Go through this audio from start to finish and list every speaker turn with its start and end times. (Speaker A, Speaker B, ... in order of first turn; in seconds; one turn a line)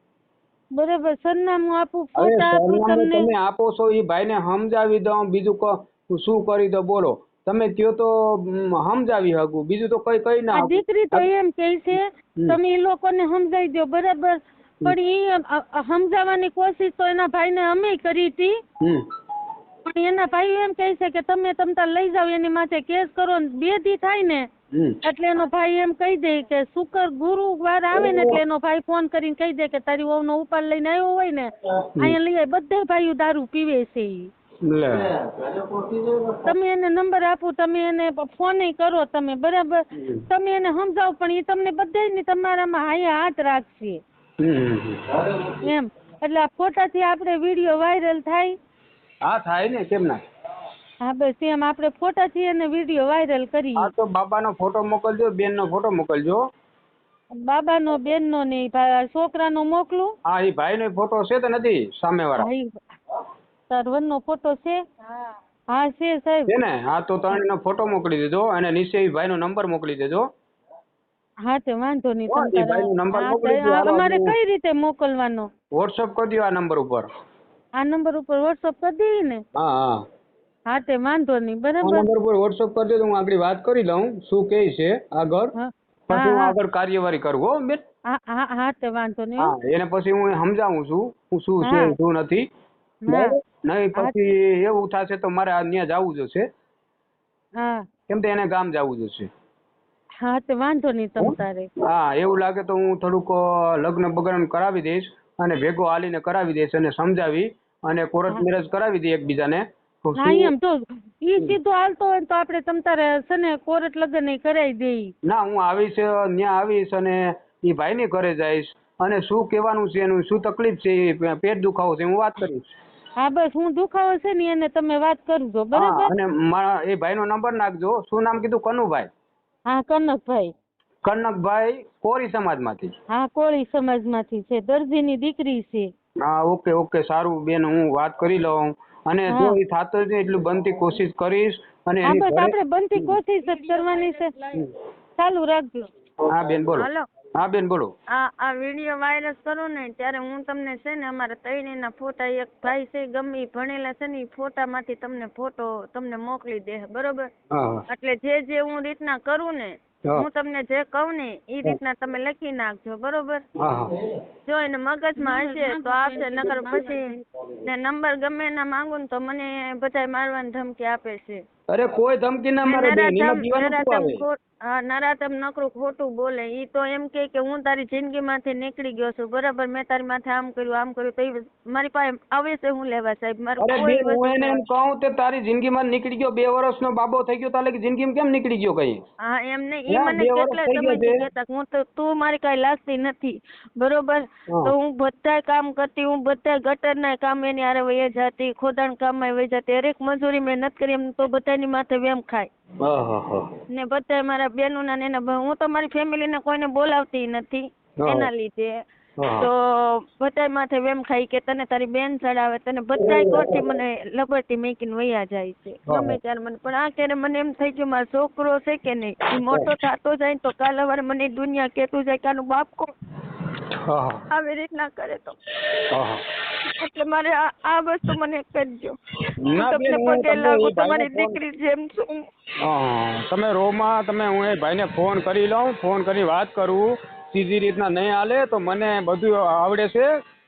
Speaker A: 0.7-3.3
Speaker B: 2.1-11.3
Speaker A: 10.5-18.6
Speaker B: 11.9-12.6
Speaker A: 19.9-24.5
Speaker B: 24.7-25.0
Speaker A: 25.0-34.3
Speaker B: 27.9-28.4
Speaker B: 34.6-35.2
Speaker A: 36.4-44.0
Speaker B: 39.9-40.2
Speaker B: 44.4-45.5
Speaker A: 45.5-48.6
Speaker B: 49.2-50.2
Speaker A: 51.0-53.9
Speaker B: 53.8-56.4
Speaker A: 57.4-60.1
Speaker B: 60.2-62.5
Speaker A: 62.4-62.9
Speaker A: 63.7-64.8
Speaker A: 65.7-66.5
Speaker B: 66.5-70.2
Speaker A: 71.4-75.5
Speaker B: 72.3-74.3
Speaker B: 75.7-77.0
Speaker A: 77.8-79.4
Speaker B: 79.5-80.0
Speaker A: 80.7-82.1
Speaker B: 81.8-85.5
Speaker A: 85.5-86.6
Speaker B: 86.1-87.8
Speaker A: 88.1-89.5
Speaker B: 89.4-92.5
Speaker A: 91.6-92.0
Speaker A: 93.0-93.4
Speaker B: 93.1-96.5
Speaker A: 97.6-97.9
Speaker B: 98.1-99.3
Speaker A: 100.2-101.7
Speaker B: 101.2-110.5
Speaker A: 110.2-115.1
Speaker B: 115.3-122.7
Speaker A: 123.2-126.1
Speaker B: 125.7-129.1
Speaker A: 129.7-130.5
Speaker B: 131.0-132.9
Speaker A: 133.1-135.9
Speaker B: 136.2-143.2
Speaker A: 139.3-139.6
Speaker A: 142.0-144.3
Speaker C: 143.8-144.1
Speaker A: 145.2-145.9
Speaker B: 146.3-147.9
Speaker C: 146.8-147.0
Speaker C: 148.1-157.3
Speaker B: 157.5-157.8
Speaker C: 157.9-163.4
Speaker B: 163.6-163.9
Speaker C: 164.4-171.4
Speaker A: 165.2-167.2
Speaker B: 171.7-174.2
Speaker C: 172.6-184.6
Speaker B: 183.6-189.0
Speaker C: 189.2-202.5
Speaker B: 189.9-191.2
Speaker B: 194.5-194.7
Speaker B: 202.8-203.5
Speaker C: 203.7-208.8
Speaker B: 208.0-208.3
Speaker B: 209.2-209.5
Speaker C: 209.4-222.9
Speaker B: 213.0-213.6
Speaker B: 215.9-216.2
Speaker B: 219.4-219.7
Speaker B: 223.8-224.2
Speaker C: 224.3-225.3
Speaker B: 225.8-226.2
Speaker C: 226.7-228.9
Speaker B: 229.4-231.4
Speaker C: 229.5-232.2
Speaker B: 232.6-240.1